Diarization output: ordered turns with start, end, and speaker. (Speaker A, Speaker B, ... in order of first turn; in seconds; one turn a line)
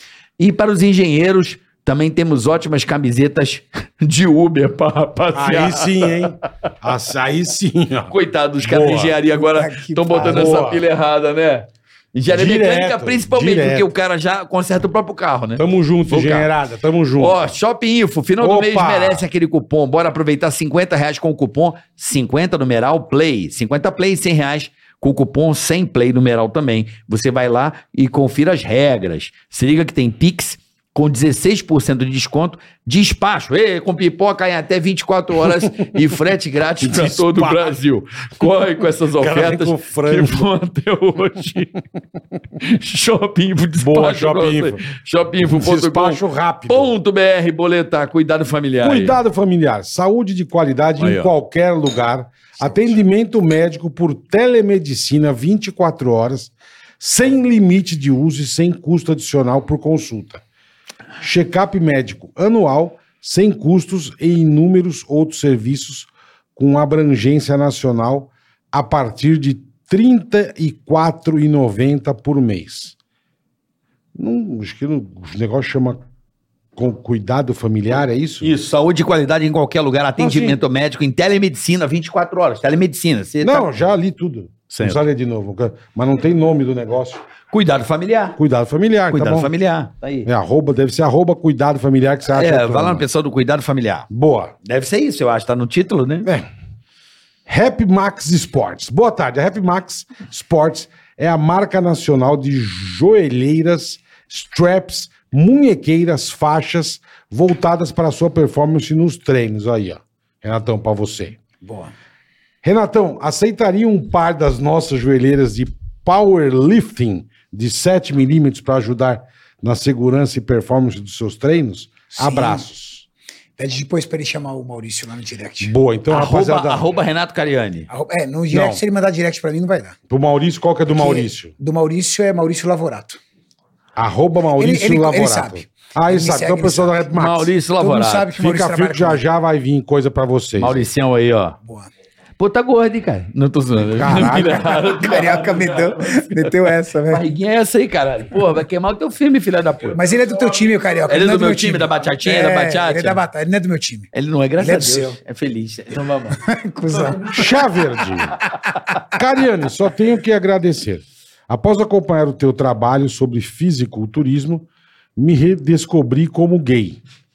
Speaker A: 0.4-6.2
Speaker B: 5.3-9.2
Speaker A: 8.1-16.5
Speaker C: 9.3-10.6
Speaker B: 10.1-10.8
Speaker B: 12.3-13.9
Speaker B: 15.6-17.5
Speaker A: 17.2-41.8
Speaker B: 18.4-19.3
Speaker B: 36.8-37.8
Speaker B: 39.2-40.5
Speaker A: 42.6-49.2
Speaker B: 43.8-44.8
Speaker B: 45.4-46.9
Speaker B: 48.8-60.4
Speaker A: 51.0-51.3
Speaker B: 61.2-73.0
Speaker B: 74.2-76.0
Speaker B: 76.8-78.5
Speaker A: 78.4-83.8
Speaker B: 80.2-80.6
Speaker B: 83.4-87.2
Speaker A: 84.7-85.0
Speaker A: 87.5-88.4
Speaker B: 88.4-89.5
Speaker A: 89.1-90.3
Speaker B: 90.2-93.0
Speaker A: 92.3-94.1
Speaker B: 94.1-94.5
Speaker A: 94.6-96.3
Speaker B: 97.5-111.4
Speaker B: 112.6-123.0
Speaker C: 122.1-122.7
Speaker C: 123.6-125.7
Speaker B: 125.6-126.9
Speaker A: 126.1-127.9
Speaker C: 127.9-130.0
Speaker B: 128.5-128.8
Speaker B: 130.1-131.5
Speaker C: 130.9-133.2
Speaker B: 134.0-137.5
Speaker C: 134.6-137.1
Speaker A: 137.1-138.3
Speaker C: 137.8-139.2
Speaker B: 138.4-140.8
Speaker A: 140.6-141.6
Speaker A: 142.4-146.5
Speaker B: 143.9-144.6
Speaker C: 144.2-147.2
Speaker A: 147.1-150.0
Speaker C: 149.9-155.2
Speaker A: 151.1-153.2
Speaker A: 154.1-156.4
Speaker C: 156.4-157.6
Speaker B: 157.3-158.4
Speaker B: 159.1-167.0